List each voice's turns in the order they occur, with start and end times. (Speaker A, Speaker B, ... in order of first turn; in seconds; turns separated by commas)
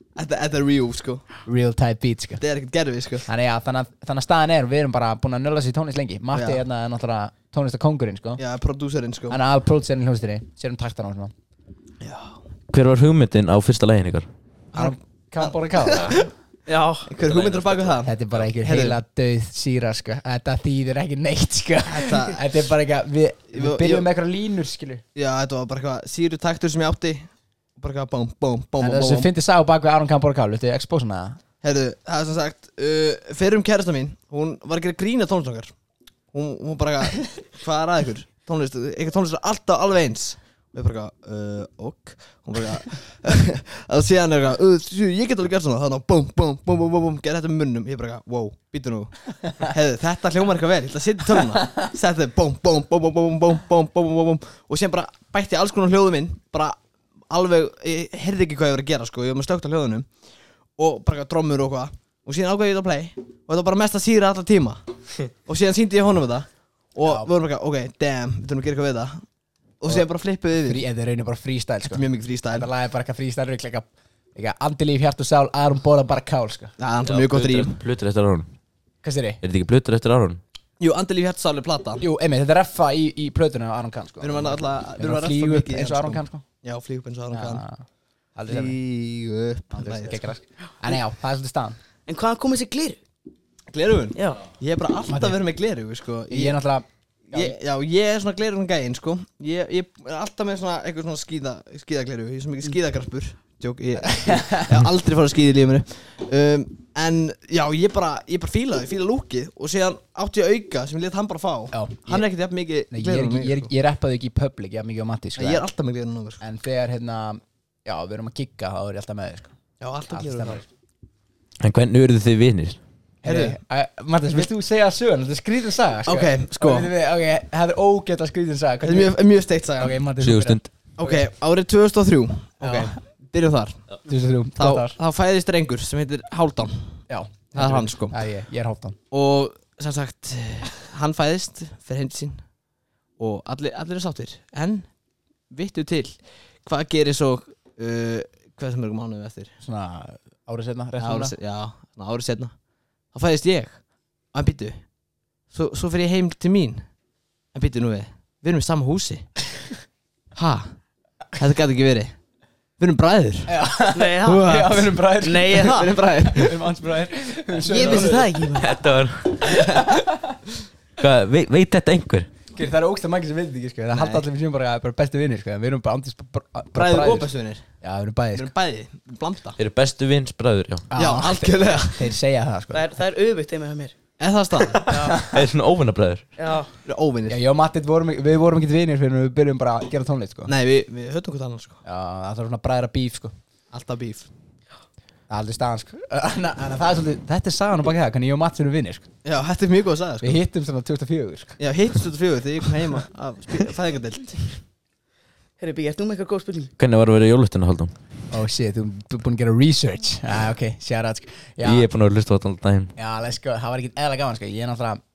Speaker A: 0.1-1.4, Speaker B: 1.4-2.4, Speaker A: 2.4-3.3, Speaker B: 3.2-8.4, Speaker A: 6.3-6.6, Speaker A: 8.4-9.4, Speaker B: 9.3-11.3, Speaker A: 12.0-12.4, Speaker C: 12.7-14.3, Speaker A: 14.7-16.2, Speaker B: 14.8-16.2, Speaker D: 16.7-17.1, Speaker A: 17.1-19.0, Speaker C: 17.2-18.4, Speaker B: 18.0-25.0, Speaker A: 21.9-22.6, Speaker A: 23.5-24.1, Speaker A: 25.1-29.3, Speaker B: 28.8-31.4, Speaker A: 31.6-35.8, Speaker A: 36.3-70.8, Speaker B: 49.4-49.7, Speaker B: 67.0-67.3, Speaker B: 69.8-76.7, Speaker A: 71.8-72.7, Speaker A: 76.8-77.8, Speaker C: 77.0-78.5, Speaker B: 79.0-79.4, Speaker C: 79.4-80.4, Speaker A: 80.8-82.0, Speaker B: 82.0-86.5, Speaker A: 84.2-87.7, Speaker B: 87.3-91.8, Speaker A: 88.5-90.4, Speaker D: 92.0-93.0, Speaker A: 93.7-113.7, Speaker D: 94.1-94.4, Speaker B: 95.1-97.6, Speaker B: 104.1-104.7, Speaker B: 111.7-115.8, Speaker A: 115.3-116.4, Speaker B: 116.4-120.7, Speaker A: 119.8-120.7, Speaker C: 121.6-122.8, Speaker B: 123.2-131.3, Speaker A: 123.2-123.7, Speaker A: 124.2-124.5, Speaker A: 126.0-126.9, Speaker A: 128.8-130.0, Speaker C: 130.2-130.7, Speaker A: 130.8-138.4, Speaker B: 132.6-133.1, Speaker B: 134.0-135.0, Speaker B: 137.1-138.9, Speaker A: 139.1-142.5, Speaker A: 143.2-149.6, Speaker B: 149.6-151.4, Speaker A: 151.0-157.0, Speaker A: 157.5-159.3, Speaker A: 160.3-160.9, Speaker A: 161.4-162.2, Speaker A: 162.8-163.6, Speaker B: 163.5-168.4, Speaker D: 163.9-165.8, Speaker A: 165.6-166.6, Speaker D: 167.7-168.7, Speaker A: 167.7-168.3, Speaker C: 168.6-169.6, Speaker C: 171.0-172.3, Speaker B: 172.5-178.6, Speaker A: 173.9-174.3, Speaker A: 176.8-179.6, Speaker C: 179.6-180.9, Speaker B: 180.9-182.8, Speaker A: 180.9-182.1, Speaker D: 182.7-184.1, Speaker A: 184.2-184.9, Speaker D: 184.8-185.1, Speaker B: 185.1-185.3, Speaker C: 185.3-186.3, Speaker D: 186.4-186.7, Speaker A: 186.7-187.4, Speaker B: 187.3-190.5, Speaker A: 190.5-191.8, Speaker B: 191.8-193.3, Speaker A: 193.7-194.3, Speaker B: 195.3-199.1, Speaker A: 199.2-200.4, Speaker B: 200.2-202.0, Speaker A: 201.6-204.6, Speaker D: 205.6-206.7, Speaker C: 206.8-208.1, Speaker B: 208.3-211.9, Speaker C: 211.6-212.9, Speaker B: 212.9-215.0